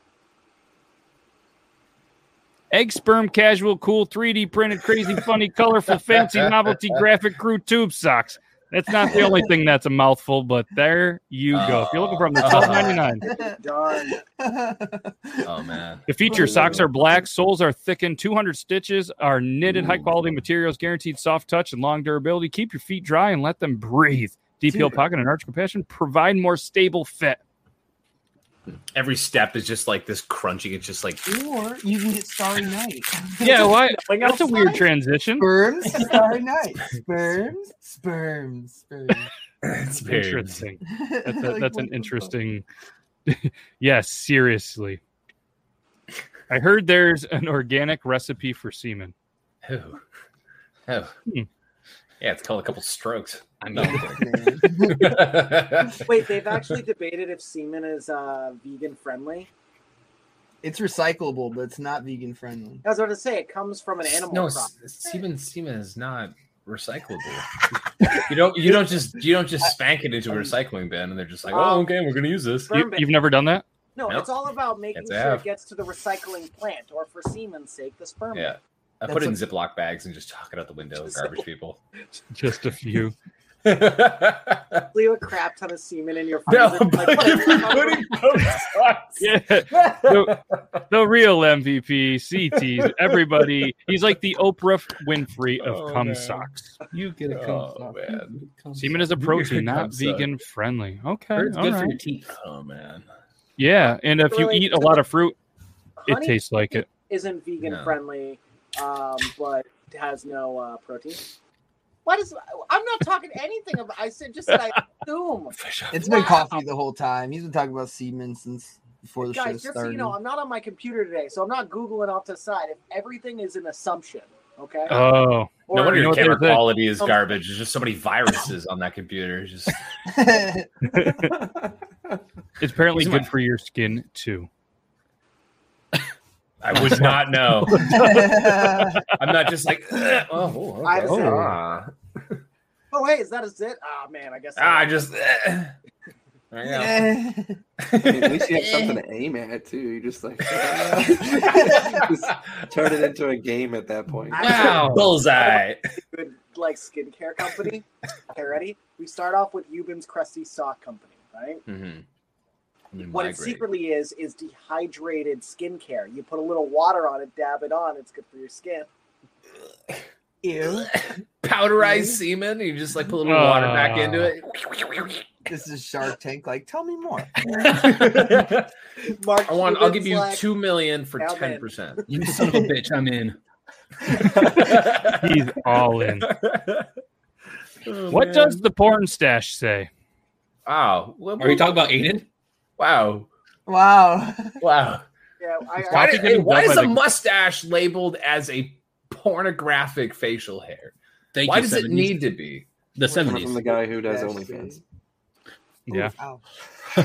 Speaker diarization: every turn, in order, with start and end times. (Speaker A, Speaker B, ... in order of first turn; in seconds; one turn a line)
Speaker A: 2.7-13.2
Speaker B: 6.1-6.8
Speaker B: 11.5-13.0
Speaker C: 12.5-13.6
Speaker D: 13.2-14.2
Speaker C: 14.1-15.5
Speaker B: 15.4-16.1
Speaker A: 16.1-27.4
Speaker E: 16.4-16.9
Speaker C: 24.7-25.1
Speaker B: 28.9-31.3
Speaker C: 31.3-33.7
Speaker A: 33.4-35.5
Speaker D: 33.4-34.8
Speaker C: 35.4-39.3
Speaker B: 39.6-40.6
Speaker A: 40.0-42.6
Speaker C: 40.9-42.3
Speaker A: 43.3-45.0
Speaker A: 46.5-49.1
Speaker B: 49.6-50.0
Speaker B: 50.9-51.1
Speaker B: 52.2-56.2
Speaker F: 53.6-54.3
Speaker C: 53.7-55.3
Speaker D: 56.0-59.5
Speaker C: 60.6-62.8
Speaker D: 62.8-64.7
Speaker B: 64.1-67.5
Speaker B: 68.0-72.8
Speaker D: 71.5-71.9
Speaker D: 72.7-73.1
Speaker A: 72.8-73.6
Speaker D: 74.0-78.5
Speaker B: 74.9-75.4
Speaker B: 78.3-81.8
Speaker C: 79.1-79.4
Speaker A: 82.3-83.2
Speaker B: 83.7-84.9
Speaker D: 84.9-88.1
Speaker B: 86.5-90.4
Speaker A: 89.2-90.4
Speaker A: 90.9-96.8
Speaker B: 92.6-93.5
Speaker B: 95.6-96.5
Speaker F: 96.9-99.1
Speaker B: 97.3-98.4
Speaker A: 98.8-102.0
Speaker B: 99.1-100.3
Speaker F: 101.4-102.3
Speaker B: 102.3-103.1
Speaker A: 103.6-105.3
Speaker D: 104.2-105.0
Speaker D: 106.0-111.2
Speaker A: 106.1-106.9
Speaker B: 107.6-108.0
Speaker D: 112.1-116.5
Speaker B: 115.6-116.3
Speaker C: 115.9-120.2
Speaker D: 119.2-125.0
Speaker A: 124.9-126.8
Speaker D: 125.7-126.2
Speaker B: 125.7-129.8
Speaker C: 130.1-130.7
Speaker A: 130.9-131.3
Speaker E: 131.0-132.2
Speaker A: 132.6-134.5
Speaker B: 132.9-133.3
Speaker B: 136.6-138.4
Speaker A: 136.7-139.1
Speaker C: 137.9-139.0
Speaker B: 139.2-142.4
Speaker D: 140.8-141.5
Speaker A: 141.0-141.6
Speaker D: 142.9-144.9
Speaker B: 144.6-145.7
Speaker B: 146.5-147.2
Speaker C: 146.6-147.6
Speaker B: 147.8-149.0
Speaker E: 148.0-154.8
Speaker B: 150.5-153.1
Speaker C: 151.3-152.0
Speaker D: 154.3-161.6
Speaker B: 154.4-155.8
Speaker B: 161.7-162.0
Speaker B: 162.9-163.7
Speaker D: 163.1-168.9
Speaker C: 170.4-170.9
Speaker B: 170.8-175.2
Speaker C: 171.8-172.2
Speaker A: 173.2-174.3
Speaker C: 175.5-177.6
Speaker B: 177.6-178.7
Speaker D: 179.1-180.5
Speaker B: 179.5-182.0
Speaker D: 181.2-182.0
Speaker F: 182.1-183.4
Speaker B: 184.1-185.4
Speaker A: 185.2-186.3
Speaker B: 186.1-186.9
Speaker B: 187.8-188.7
Speaker A: 188.1-189.9
Speaker B: 190.7-191.9
Speaker F: 191.4-192.3
Speaker B: 192.8-193.3
Speaker C: 193.7-194.6
Speaker B: 194.6-195.1
Speaker D: 195.4-196.2
Speaker B: 195.9-202.7
Speaker A: 195.9-197.0
Speaker F: 201.3-202.3
Speaker F: 202.9-203.6
Speaker E: 203.1-204.8
Speaker C: 203.1-204.8
Speaker A: 205.9-206.1
Speaker C: 205.9-206.4